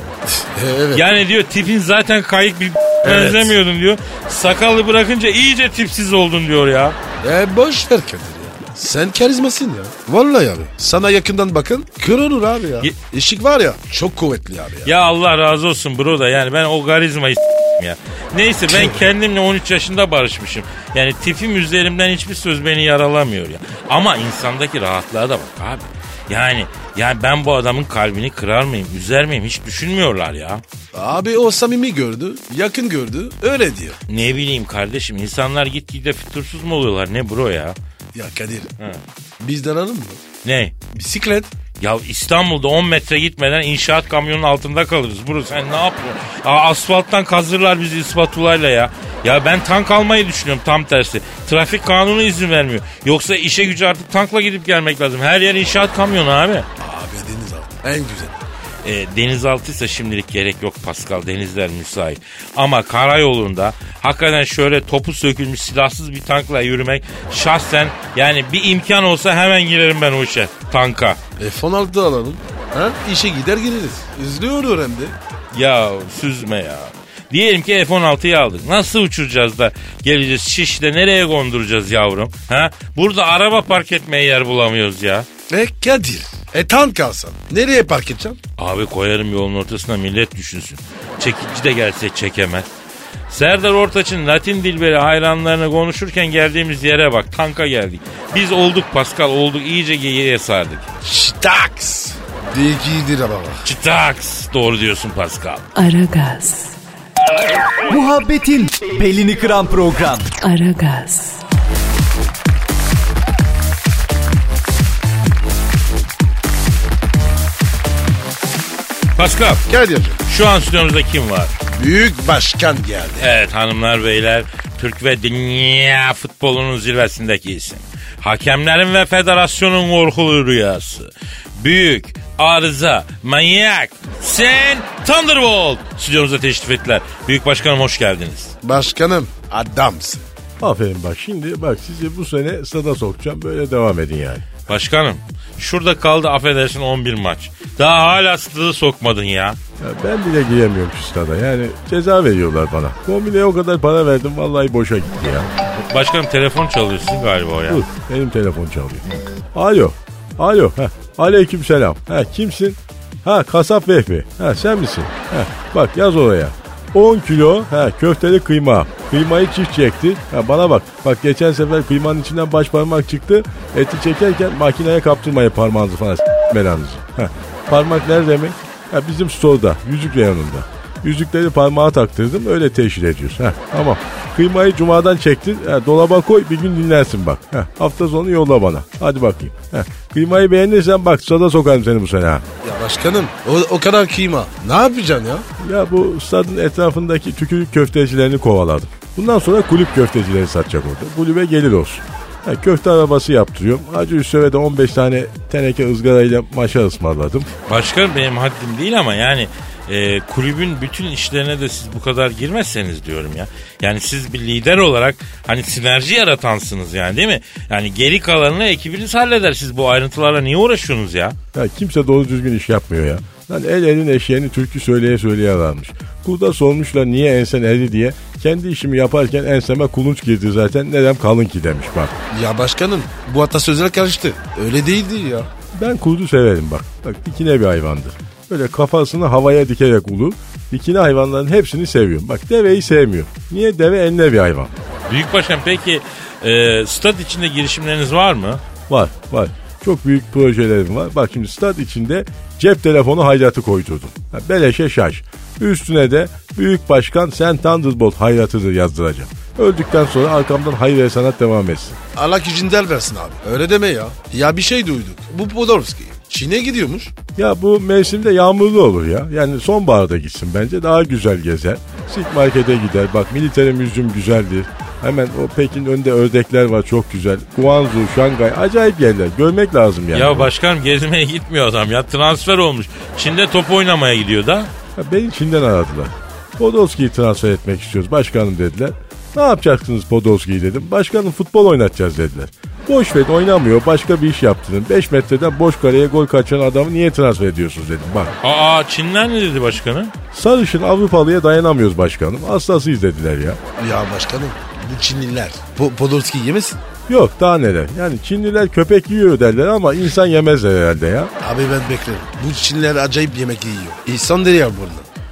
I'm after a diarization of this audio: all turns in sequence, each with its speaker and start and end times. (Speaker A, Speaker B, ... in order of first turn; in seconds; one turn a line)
Speaker A: 0.3-1.1
Speaker B: 0.9-7.0
Speaker A: 3.0-3.5
Speaker A: 7.2-14.9
Speaker B: 14.8-30.6
Speaker A: 18.7-19.0
Speaker A: 30.9-34.0
Speaker B: 34.1-37.8
Speaker A: 38.1-38.7
Speaker A: 39.4-40.2
Speaker B: 40.4-40.7
Speaker A: 40.9-41.5
Speaker B: 41.8-56.7
Speaker A: 56.8-58.4
Speaker B: 58.8-71.2
Speaker A: 71.4-75.2
Speaker B: 75.5-85.3
Speaker A: 85.5-88.4
Speaker B: 88.6-92.7
Speaker B: 93.3-100.8
Speaker A: 101.0-103.6
Speaker B: 103.7-105.7
Speaker C: 105.8-106.8
Speaker D: 107.9-110.3
Speaker C: 110.4-111.4
Speaker B: 119.2-119.7
Speaker A: 119.7-120.2
Speaker B: 120.3-121.6
Speaker A: 121.8-123.3
Speaker B: 123.2-138.6
Speaker A: 138.6-140.3
Speaker E: 140.6-144.5
Speaker B: 144.7-149.6
Speaker E: 149.8-155.5
Speaker B: 155.9-157.9
Speaker E: 157.7-159.0
Speaker E: 159.6-192.4
Speaker A: 192.6-195.5
Speaker E: 195.6-207.5
Speaker B: 207.7-221.4
Speaker E: 221.6-232.2
Speaker A: 232.3-235.5
Speaker E: 235.7-244.7
Speaker B: 245.1-248.6
Speaker E: 248.9-262.0
Speaker A: 262.1-267.1
Speaker E: 267.4-280.5
Speaker B: 280.1-284.7
Speaker E: 285.0-298.3
Speaker B: 298.4-300.1
Speaker E: 300.3-303.6
Speaker A: 303.8-306.9
Speaker E: 307.1-311.3
Speaker A: 311.4-315.1